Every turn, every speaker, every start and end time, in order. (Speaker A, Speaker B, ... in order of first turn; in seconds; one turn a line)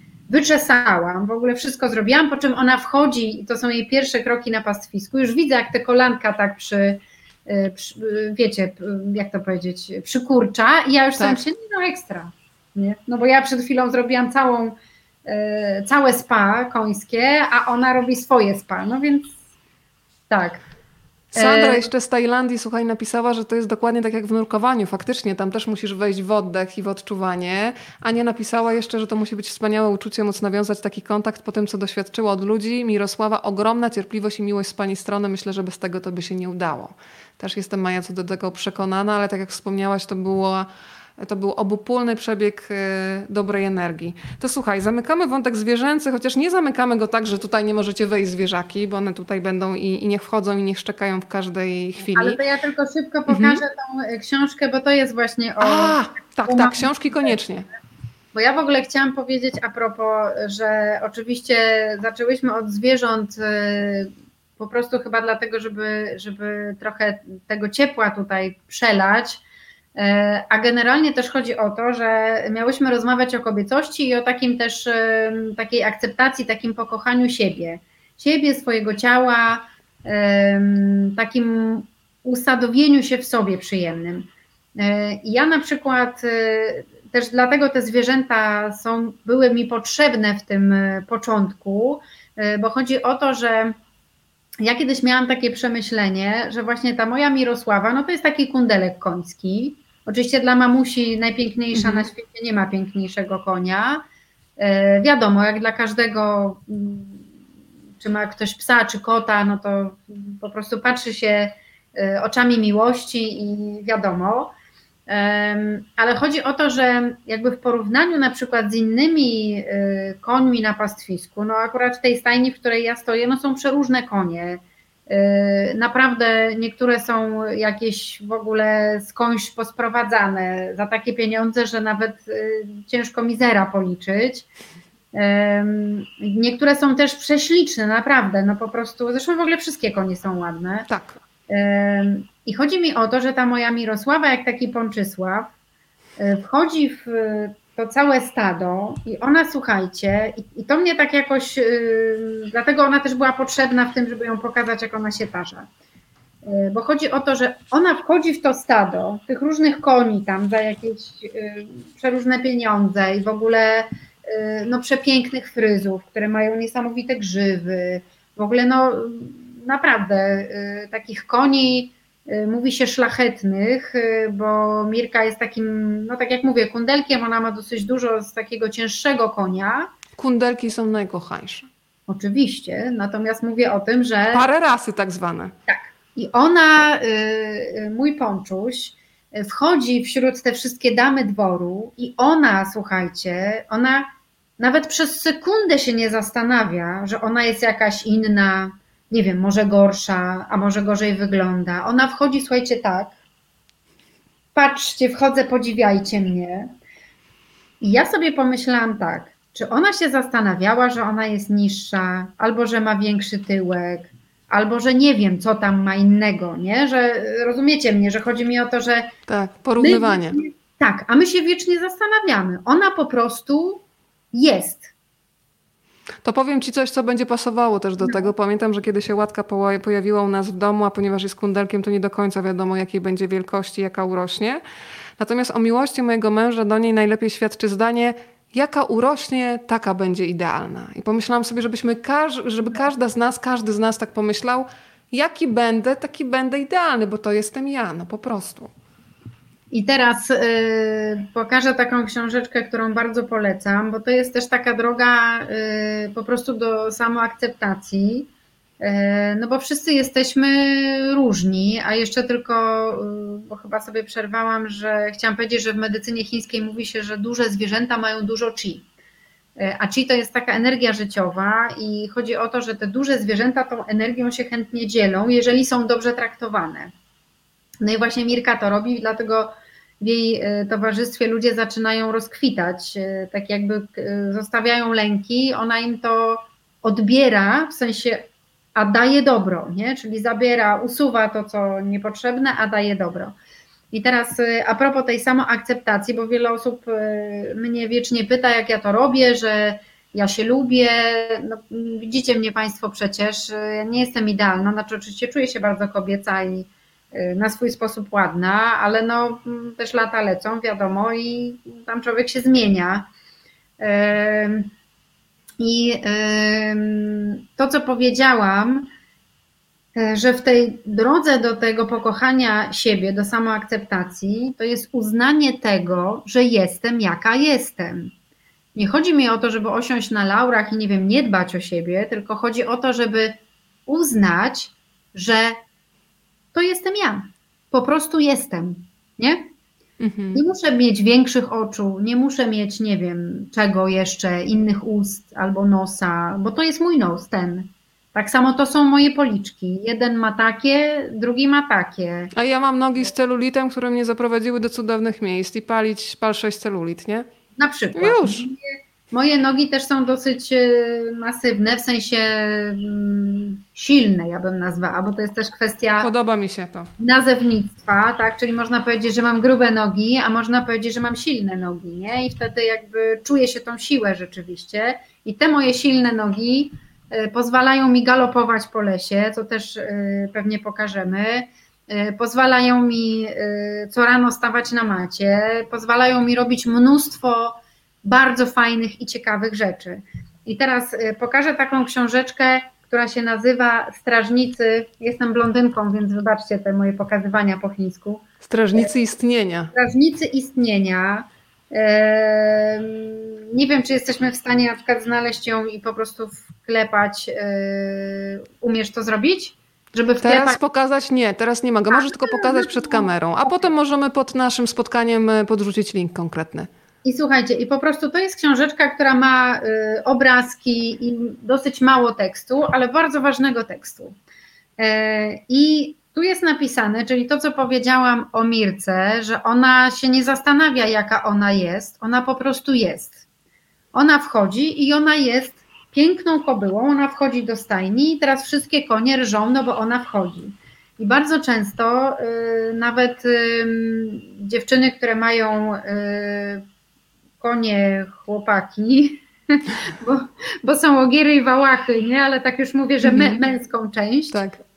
Speaker A: 0.3-19.4
Speaker B: 11.2-11.4
Speaker A: 20.3-20.6
Speaker B: 21.3-40.7
Speaker A: 21.4-21.9
Speaker B: 41.2-52.4
Speaker A: 52.1-57.3
Speaker B: 53.3-53.6
Speaker B: 55.6-57.7
Speaker A: 58.3-69.4
Speaker A: 69.9-93.7
Speaker A: 94.6-104.0
Speaker B: 101.7-102.1
Speaker A: 104.6-107.2
Speaker A: 108.0-114.5
Speaker A: 115.1-134.5
Speaker A: 135.1-140.9
Speaker B: 140.9-141.2
Speaker A: 141.5-145.5
Speaker A: 146.2-155.7
Speaker A: 156.4-179.9
Speaker B: 180.2-181.7
Speaker A: 182.1-184.4
Speaker B: 184.3-185.5
Speaker A: 185.7-194.1
Speaker A: 194.6-203.1
Speaker A: 204.5-206.7
Speaker A: 207.8-219.1
Speaker B: 219.3-220.4
Speaker A: 219.8-224.9
Speaker B: 226.2-234.6
Speaker A: 228.0-228.3
Speaker B: 235.2-248.7
Speaker A: 249.7-268.9
Speaker A: 269.6-276.9
Speaker A: 277.8-293.3
Speaker A: 293.9-313.1
Speaker A: 313.8-314.7
Speaker A: 315.6-318.9
Speaker A: 319.9-328.1
Speaker A: 328.7-335.6
Speaker A: 336.5-339.4
Speaker B: 340.0-340.4
Speaker A: 340.3-352.3
Speaker B: 352.3-357.2
Speaker A: 357.6-366.1
Speaker B: 357.9-358.5
Speaker B: 366.0-366.9
Speaker A: 367.0-398.9
Speaker B: 398.4-399.7
Speaker A: 399.7-410.6
Speaker B: 410.2-416.7
Speaker A: 411.9-413.7
Speaker A: 417.0-424.1
Speaker A: 424.8-433.2
Speaker A: 433.9-446.6
Speaker A: 447.4-454.4
Speaker B: 453.0-453.4
Speaker B: 454.3-454.6